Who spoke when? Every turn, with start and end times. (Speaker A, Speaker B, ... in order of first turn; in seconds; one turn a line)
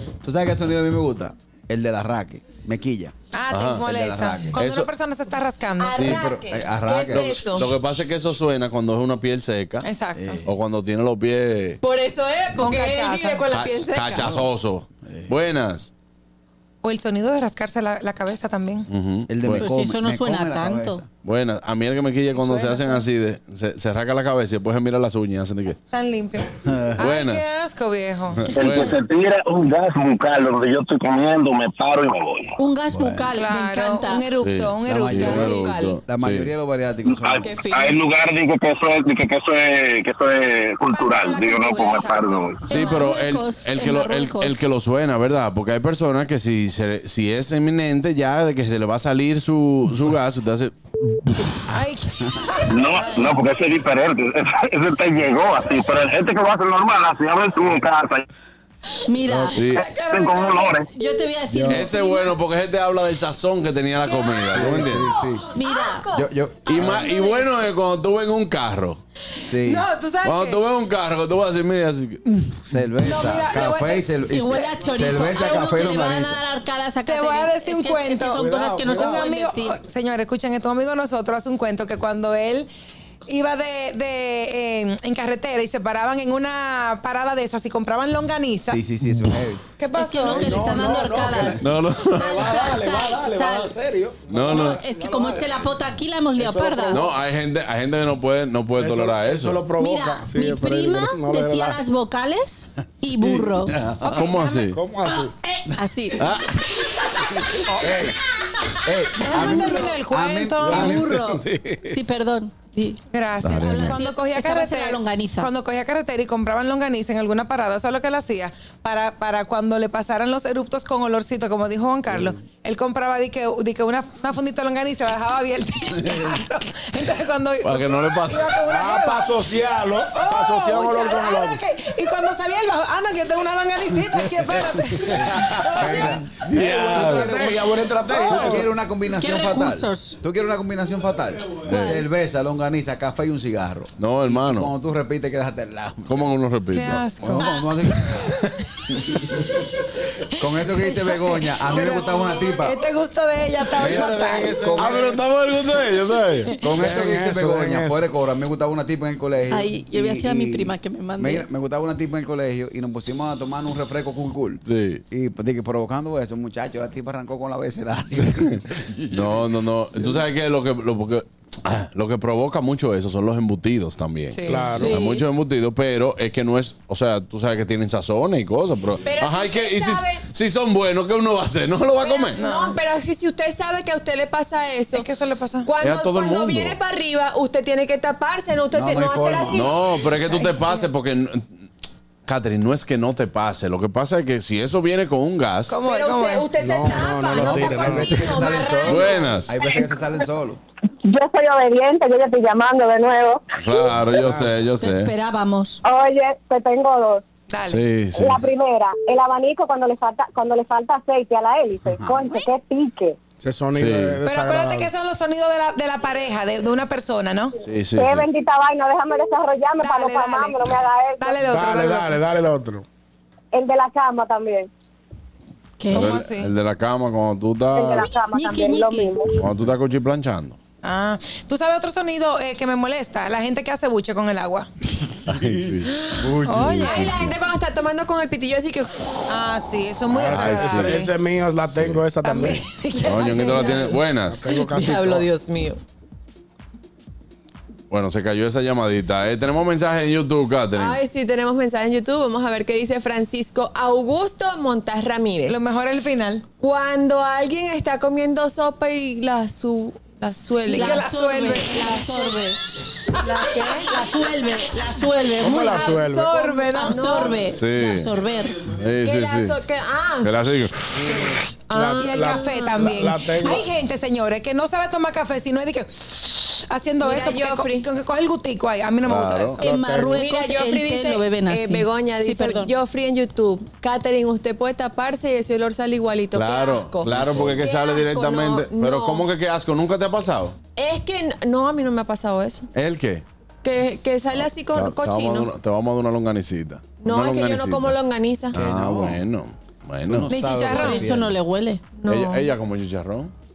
Speaker A: 0.2-3.1
Speaker B: 3.3-6.1
Speaker C: 3.5-3.8
Speaker A: 3.8-4.6
Speaker C: 4.5-4.9
Speaker D: 5.8-7.7
Speaker A: 6.0-7.4
Speaker C: 7.0-9.9
Speaker B: 9.8-10.4
Speaker A: 10.2-10.5
Speaker C: 10.4-11.8
Speaker D: 11.8-14.5
Speaker B: 12.6-13.4
Speaker C: 13.5-15.9
Speaker A: 15.0-15.3
Speaker B: 16.8-18.9
Speaker C: 18.9-19.7
Speaker A: 19.3-21.1
Speaker E: 19.6-21.0
Speaker C: 21.2-25.8
Speaker B: 22.3-23.0
Speaker B: 25.9-28.5
Speaker A: 26.6-27.0
Speaker C: 27.0-27.4
Speaker F: 28.5-32.5
Speaker C: 28.6-28.9
Speaker E: 32.6-34.3
Speaker A: 32.9-33.3
Speaker B: 33.3-35.6
Speaker C: 34.4-36.5
Speaker A: 34.9-37.5
Speaker D: 35.4-36.0
Speaker F: 37.0-42.7
Speaker D: 37.3-38.0
Speaker B: 40.9-43.1
Speaker E: 42.7-44.7
Speaker C: 42.7-50.7
Speaker B: 51.7-53.2
Speaker F: 52.7-58.2
Speaker E: 53.0-53.4
Speaker E: 59.1-59.6
Speaker C: 59.5-59.9
Speaker B: 59.5-60.8
Speaker F: 59.8-60.9
Speaker E: 60.9-62.3
Speaker G: 61.5-61.9
Speaker C: 61.7-65.1
Speaker B: 64.1-64.5
Speaker A: 64.5-65.5
Speaker D: 64.9-66.3
Speaker E: 65.5-66.1
Speaker A: 66.1-67.1
Speaker C: 66.7-69.0
Speaker D: 66.8-67.5
Speaker A: 69.3-69.9
Speaker B: 69.6-70.6
Speaker C: 70.2-72.2
Speaker A: 72.3-76.4
Speaker B: 73.0-74.7
Speaker E: 74.3-79.8
Speaker B: 77.0-82.7
Speaker G: 78.3-79.3
Speaker B: 83.2-88.8
Speaker A: 88.6-89.6
Speaker B: 89.8-90.9
Speaker E: 89.9-91.6
Speaker G: 90.2-95.7
Speaker C: 91.6-92.7
Speaker E: 92.2-93.8
Speaker C: 94.3-94.8
Speaker E: 94.5-97.0
Speaker G: 96.3-97.2
Speaker C: 96.9-99.7
Speaker G: 98.7-101.8
Speaker E: 99.8-103.8
Speaker A: 103.2-104.0
Speaker B: 104.0-104.7
Speaker C: 104.1-104.8
Speaker G: 104.7-105.3
Speaker E: 105.0-106.3
Speaker D: 105.8-106.2
Speaker C: 106.2-106.5
Speaker G: 107.7-108.1
Speaker A: 107.8-108.2
Speaker A: 108.8-111.2
Speaker B: 109.2-111.0
Speaker E: 109.4-109.8
Speaker G: 110.6-112.0
Speaker E: 110.8-113.0
Speaker B: 113.1-129.4
Speaker C: 113.4-114.0
Speaker E: 113.5-115.5
Speaker C: 127.6-128.6
Speaker G: 128.7-131.6
Speaker B: 130.1-136.1
Speaker G: 135.2-138.7
Speaker A: 135.3-146.3
Speaker C: 136.4-137.4
Speaker B: 138.1-138.5
Speaker E: 139.1-140.2
Speaker C: 141.7-142.0
Speaker E: 141.7-142.0
Speaker C: 144.0-144.7
Speaker C: 146.1-147.1
Speaker B: 146.7-148.2
Speaker A: 147.2-148.4
Speaker A: 149.0-149.5
Speaker A: 150.4-152.8
Speaker B: 150.6-154.7
Speaker G: 151.9-152.3
Speaker A: 153.8-155.1
Speaker G: 153.8-158.1
Speaker C: 154.8-156.3
Speaker A: 156.6-170.3
Speaker E: 159.5-161.5
Speaker C: 164.7-165.0
Speaker C: 169.1-182.4
Speaker B: 174.3-174.9
Speaker G: 174.5-174.9
Speaker E: 174.8-175.2
Speaker D: 179.0-180.2
Speaker D: 182.0-185.1
Speaker B: 182.3-182.8
Speaker B: 184.9-185.7
Speaker D: 185.6-190.0
Speaker C: 185.8-186.8
Speaker A: 188.7-189.8
Speaker C: 189.5-191.6
Speaker B: 190.2-190.8
Speaker C: 192.2-195.8
Speaker B: 195.7-196.5
Speaker D: 195.8-199.4
Speaker G: 196.6-198.4
Speaker A: 197.7-200.6
Speaker C: 198.8-199.5
Speaker H: 201.0-203.4
Speaker C: 203.5-205.1
Speaker G: 204.2-204.5
Speaker E: 204.8-205.8
Speaker H: 205.8-207.2
Speaker B: 207.5-207.8
Speaker C: 207.6-208.5
Speaker H: 208.1-213.2
Speaker A: 211.9-212.5
Speaker G: 213.4-214.9
Speaker C: 213.7-214.2
Speaker B: 214.2-217.6
Speaker C: 217.6-218.3
Speaker H: 217.9-221.4
Speaker B: 219.8-222.2
Speaker G: 221.5-222.8
Speaker H: 223.5-224.7
Speaker E: 225.8-226.2
Speaker B: 225.9-226.5
Speaker C: 225.9-228.1
Speaker H: 227.7-229.3
Speaker E: 227.9-229.3
Speaker C: 229.3-230.6
Speaker B: 230.8-234.7
Speaker C: 235.2-237.3
Speaker A: 236.2-236.7
Speaker B: 236.4-237.1
Speaker D: 236.7-239.3
Speaker B: 239.3-241.1
Speaker G: 240.1-242.6
Speaker C: 240.2-241.1
Speaker C: 241.7-244.5
Speaker B: 242.2-243.8
Speaker D: 243.0-245.8
Speaker G: 244.2-245.2
Speaker C: 247.9-251.0
Speaker D: 250.7-255.6
Speaker B: 255.5-256.4
Speaker D: 256.6-261.9
Speaker B: 260.7-262.4
Speaker E: 260.7-262.6
Speaker D: 263.2-264.1
Speaker E: 263.8-265.9
Speaker G: 265.4-266.3
Speaker B: 265.5-267.4
Speaker D: 265.5-267.5
Speaker E: 266.8-268.7
Speaker C: 267.5-268.1
Speaker C: 268.7-269.6
Speaker D: 269.0-270.5
Speaker C: 270.2-271.1
Speaker G: 271.0-273.6
Speaker D: 271.1-273.6
Speaker B: 272.0-279.6
Speaker D: 277.0-277.9
Speaker C: 279.0-279.6
Speaker G: 279.6-280.2
Speaker E: 279.6-282.7
Speaker D: 280.1-289.3
Speaker C: 286.3-290.6
Speaker D: 290.8-292.7
Speaker C: 292.7-293.2
Speaker D: 293.6-295.5
Speaker C: 294.3-297.9
Speaker D: 297.0-298.6
Speaker C: 298.5-300.3
Speaker A: 298.5-299.2
Speaker A: 300.1-301.4
Speaker B: 300.3-301.1
Speaker E: 300.7-301.9
Speaker D: 301.9-302.5
Speaker C: 302.0-303.3